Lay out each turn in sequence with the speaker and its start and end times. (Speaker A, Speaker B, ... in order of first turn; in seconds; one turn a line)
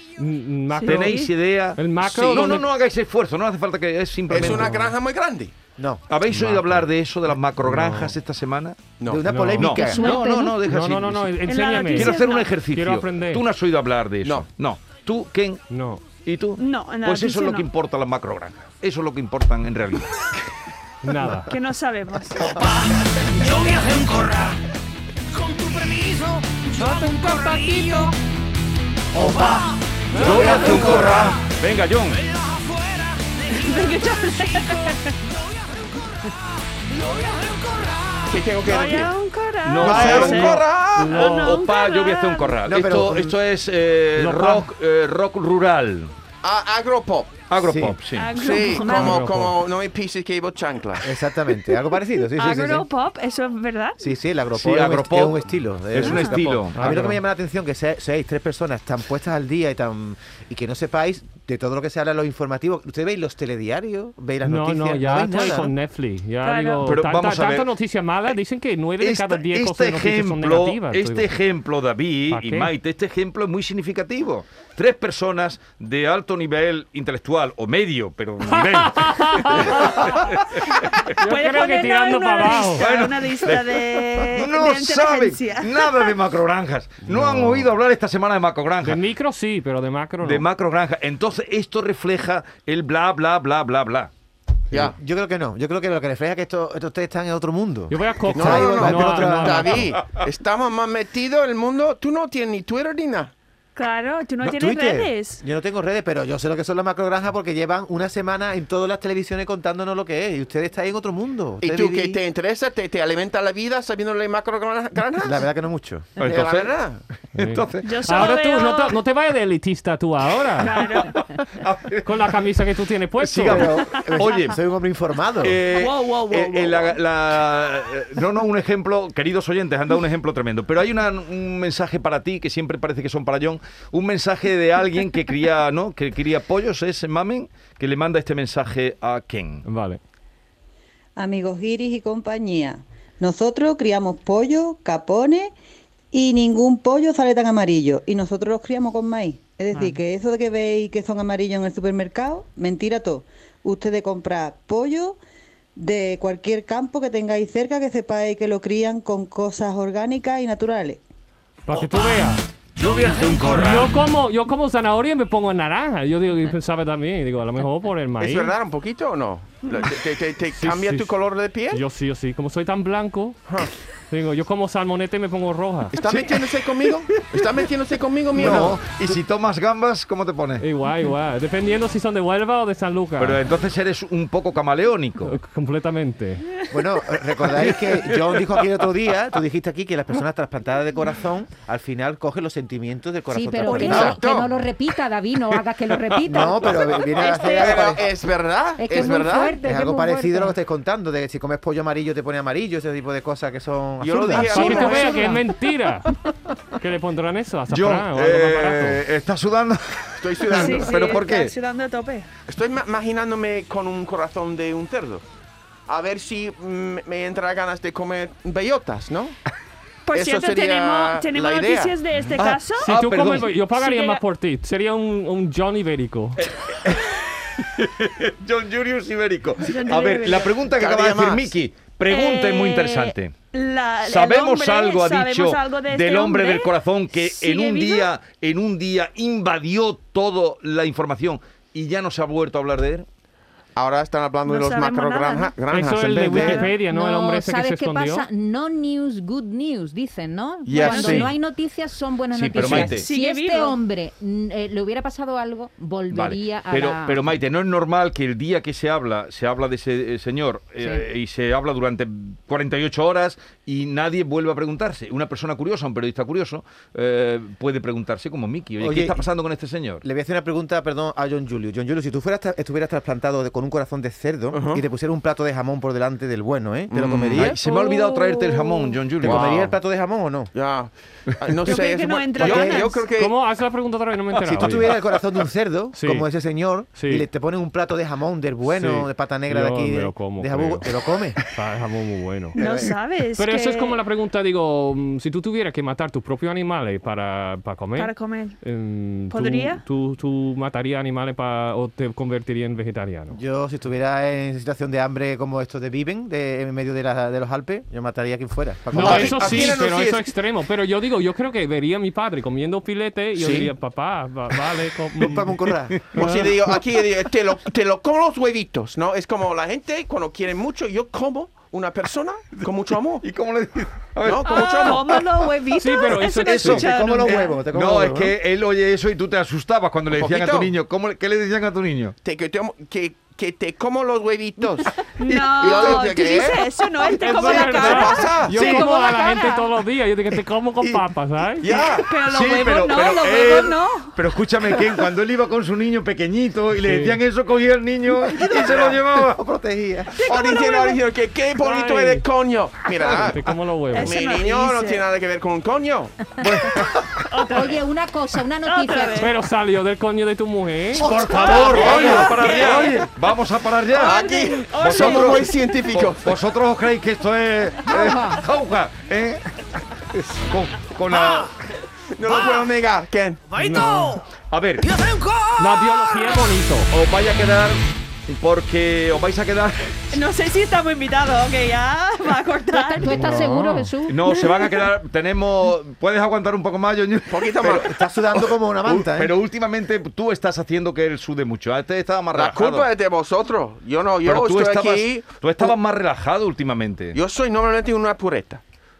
Speaker A: 0.2-2.7
Speaker B: 0.7-1.3
Speaker C: 0.8-4.8
Speaker D: 4.3-5.5
Speaker E: 5.8-6.8
Speaker C: 6.1-8.8
Speaker A: 7.6-8.2
Speaker D: 9.0-9.3
Speaker E: 9.0-10.0
Speaker A: 9.2-9.8
Speaker C: 9.6-15.6
Speaker F: 9.7-10.6
Speaker A: 10.6-13.5
Speaker B: 11.5-12.5
Speaker A: 15.7-16.1
Speaker C: 16.1-20.1
Speaker B: 16.6-17.7
Speaker A: 21.0-21.6
Speaker B: 21.5-22.5
Speaker G: 22.5-24.6
Speaker G: 25.4-28.1
Speaker H: 26.8-28.1
Speaker G: 29.1-31.4
Speaker C: 30.1-32.2
Speaker D: 30.2-31.4
Speaker H: 30.3-31.0
Speaker G: 32.2-34.2
Speaker B: 33.5-35.1
Speaker G: 36.9-38.5
Speaker H: 37.1-37.4
Speaker D: 38.3-39.1
Speaker B: 38.6-42.6
Speaker C: 39.6-46.1
Speaker D: 39.8-41.3
Speaker A: 39.8-41.6
Speaker E: 42.6-43.4
Speaker A: 44.2-44.7
Speaker D: 46.4-47.4
Speaker C: 47.5-48.3
Speaker E: 47.6-48.0
Speaker B: 48.1-49.3
Speaker D: 48.3-51.1
Speaker A: 48.7-49.6
Speaker E: 51.0-52.9
Speaker B: 52.4-54.0
Speaker E: 54.0-65.7
Speaker C: 54.5-57.1
Speaker A: 56.7-57.2
Speaker A: 64.4-71.3
Speaker B: 66.4-66.9
Speaker C: 66.8-67.7
Speaker C: 69.0-81.1
Speaker A: 72.3-72.7
Speaker A: 78.5-80.4
Speaker B: 81.0-86.1
Speaker A: 81.1-82.9
Speaker C: 82.8-89.0
Speaker A: 87.0-87.7
Speaker A: 88.8-90.5
Speaker C: 90.2-94.1
Speaker E: 94.7-99.9
Speaker A: 97.9-99.8
Speaker D: 98.3-103.3
Speaker B: 103.8-105.4
Speaker E: 104.4-112.2
Speaker D: 111.6-115.5
Speaker E: 115.2-116.1
Speaker C: 116.2-116.8
Speaker D: 116.2-117.0
Speaker C: 117.3-117.9
Speaker A: 117.3-120.8
Speaker B: 117.8-119.0
Speaker B: 120.6-121.2
Speaker C: 120.9-122.2
Speaker A: 122.0-123.7
Speaker C: 123.2-124.6
Speaker E: 123.5-125.6
Speaker C: 125.4-139.7
Speaker B: 125.7-126.9
Speaker A: 139.7-140.0
Speaker H: 141.2-145.5
Speaker H: 146.1-155.2
Speaker A: 149.7-150.0
Speaker H: 155.8-161.0
Speaker A: 161.7-162.4
Speaker G: 162.8-163.5
Speaker C: 163.0-163.9
Speaker A: 163.4-168.6
Speaker D: 168.2-171.8
Speaker B: 169.7-169.9
Speaker A: 170.5-171.2
Speaker A: 171.7-173.4
Speaker A: 174.1-175.9
Speaker D: 175.9-178.8
Speaker C: 176.0-176.5
Speaker C: 178.3-180.7
Speaker E: 178.4-178.8
Speaker A: 180.6-183.4
Speaker C: 183.2-185.3
Speaker A: 185.3-186.5
Speaker E: 186.7-194.2
Speaker C: 187.6-188.4
Speaker F: 193.3-196.8
Speaker B: 193.7-194.1
Speaker D: 193.8-194.5
Speaker C: 195.6-197.0
Speaker E: 196.2-198.1
Speaker B: 196.7-198.0
Speaker D: 197.3-199.6
Speaker F: 198.8-200.6
Speaker E: 199.6-205.2
Speaker D: 204.0-205.4
Speaker A: 204.3-206.2
Speaker A: 206.8-209.0
Speaker C: 207.7-211.5
Speaker D: 210.2-211.2
Speaker B: 210.5-212.3
Speaker D: 212.5-215.2
Speaker D: 215.9-219.4
Speaker B: 220.1-222.9
Speaker D: 220.2-221.9
Speaker C: 222.3-223.5
Speaker A: 222.8-226.4
Speaker B: 223.7-224.2
Speaker C: 226.4-233.3
Speaker B: 229.6-230.5
Speaker D: 230.8-231.6
Speaker B: 232.1-238.1
Speaker C: 234.1-243.1
Speaker D: 243.8-246.7
Speaker B: 244.5-245.5
Speaker A: 245.7-248.3
Speaker F: 246.7-257.3
Speaker D: 250.7-251.3
Speaker B: 250.7-251.2
Speaker C: 252.3-253.1
Speaker B: 252.6-253.8
Speaker C: 256.1-270.0
Speaker E: 268.8-269.2
Speaker E: 270.0-277.6
Speaker D: 274.5-274.8
Speaker D: 276.9-277.6
Speaker C: 277.3-279.6
Speaker B: 277.7-278.9
Speaker E: 279.2-280.5
Speaker D: 279.3-279.6
Speaker D: 280.5-283.4
Speaker B: 281.6-283.1
Speaker E: 282.4-282.9
Speaker A: 283.1-284.9
Speaker E: 284.4-291.4
Speaker A: 285.9-286.3
Speaker A: 286.9-287.3
Speaker A: 288.7-290.9
Speaker A: 291.4-292.6
Speaker E: 292.6-292.9
Speaker B: 292.6-294.0
Speaker A: 293.4-303.4
Speaker B: 298.0-298.6
Speaker B: 299.3-299.8
Speaker E: 303.3-309.8
Speaker A: 308.9-316.5
Speaker D: 308.9-310.3
Speaker D: 313.4-313.7
Speaker E: 315.2-316.1
Speaker C: 316.0-316.5
Speaker D: 316.1-323.2
Speaker C: 323.2-325.2
Speaker D: 324.2-325.0
Speaker B: 324.4-327.5
Speaker A: 325.8-326.9
Speaker C: 326.4-326.9
Speaker E: 326.6-328.3
Speaker C: 327.7-332.2
Speaker D: 330.1-330.7
Speaker D: 332.2-335.0
Speaker B: 335.2-339.2
Speaker C: 335.3-336.0
Speaker D: 335.5-338.8
Speaker A: 337.1-341.7
Speaker C: 338.6-338.8
Speaker F: 338.7-339.6
Speaker D: 341.6-342.1
Speaker C: 341.7-349.4
Speaker B: 342.1-344.2
Speaker A: 346.8-347.2
Speaker E: 348.3-350.2
Speaker D: 348.7-348.9
Speaker B: 350.2-351.0
Speaker D: 350.2-356.3
Speaker A: 351.6-352.3
Speaker A: 353.1-354.1
Speaker B: 353.9-355.0
Speaker C: 356.4-357.3
Speaker B: 357.3-357.8
Speaker F: 357.5-359.3
Speaker B: 358.6-359.3
Speaker A: 359.2-362.1
Speaker C: 361.0-371.6
Speaker D: 361.0-363.0
Speaker B: 361.3-363.0
Speaker B: 363.9-365.5
Speaker D: 363.9-366.4
Speaker F: 367.9-368.5
Speaker D: 372.1-373.6
Speaker G: 372.4-372.7
Speaker A: 373.6-374.2
Speaker G: 373.6-374.2
Speaker C: 374.5-375.0
Speaker G: 374.8-376.0
Speaker A: 375.6-376.9
Speaker C: 376.9-380.0
Speaker B: 380.1-383.4
Speaker F: 382.7-384.4
Speaker A: 383.1-383.9
Speaker C: 384.1-392.9
Speaker B: 384.3-384.9
Speaker D: 387.3-387.9
Speaker E: 387.6-389.3
Speaker D: 392.3-395.8
Speaker C: 394.2-397.2
Speaker D: 397.1-398.6